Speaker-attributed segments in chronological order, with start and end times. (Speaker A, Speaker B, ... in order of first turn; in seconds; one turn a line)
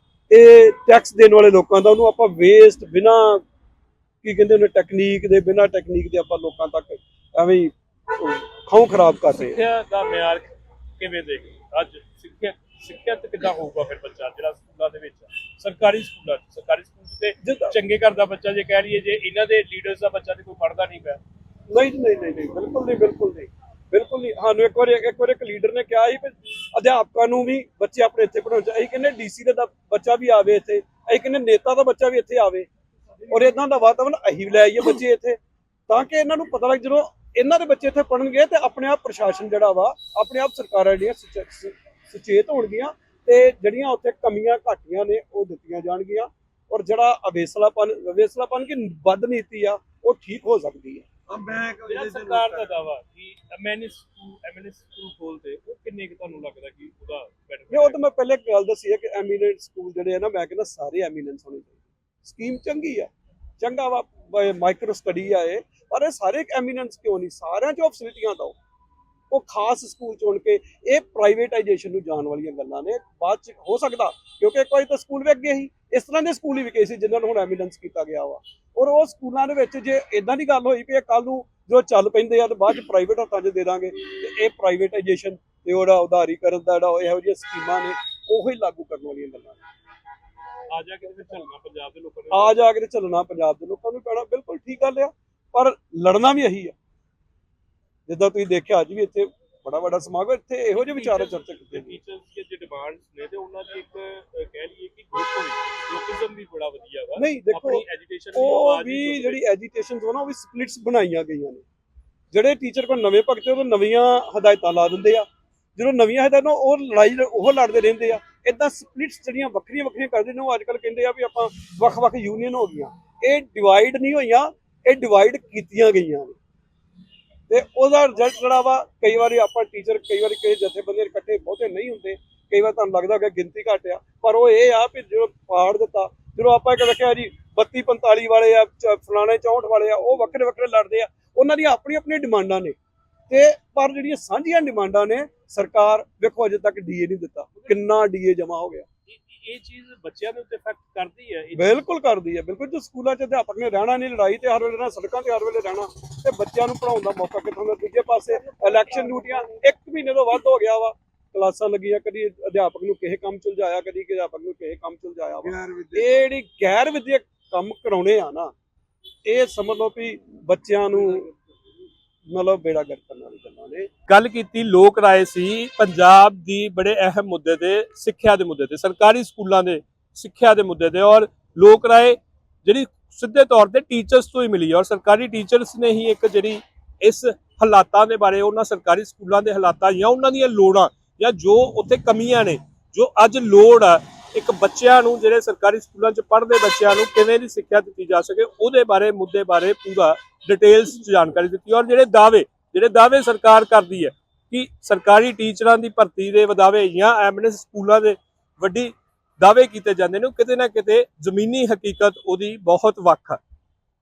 Speaker A: 0.3-3.4
Speaker A: 4.2-9.6
Speaker B: 9.4-21.2
Speaker A: 17.4-17.7
Speaker A: 21.7-32.7
Speaker A: 33.3-35.4
Speaker A: 35.9-51.0
Speaker C: 51.3-52.7
Speaker B: 51.9-58.0
Speaker A: 57.7-68.5
Speaker A: 69.3-89.6
Speaker B: 90.7-92.6
Speaker A: 92.3-96.7
Speaker A: 98.1-102.0
Speaker B: 100.7-109.4
Speaker A: 107.2-111.6
Speaker A: 112.3-126.3
Speaker A: 127.5-142.8
Speaker A: 143.3-148.8
Speaker B: 149.1-151.7
Speaker A: 151.5-168.5
Speaker C: 165.4-166.1
Speaker A: 169.2-171.3
Speaker A: 172.3-173.9
Speaker B: 174.1-213.4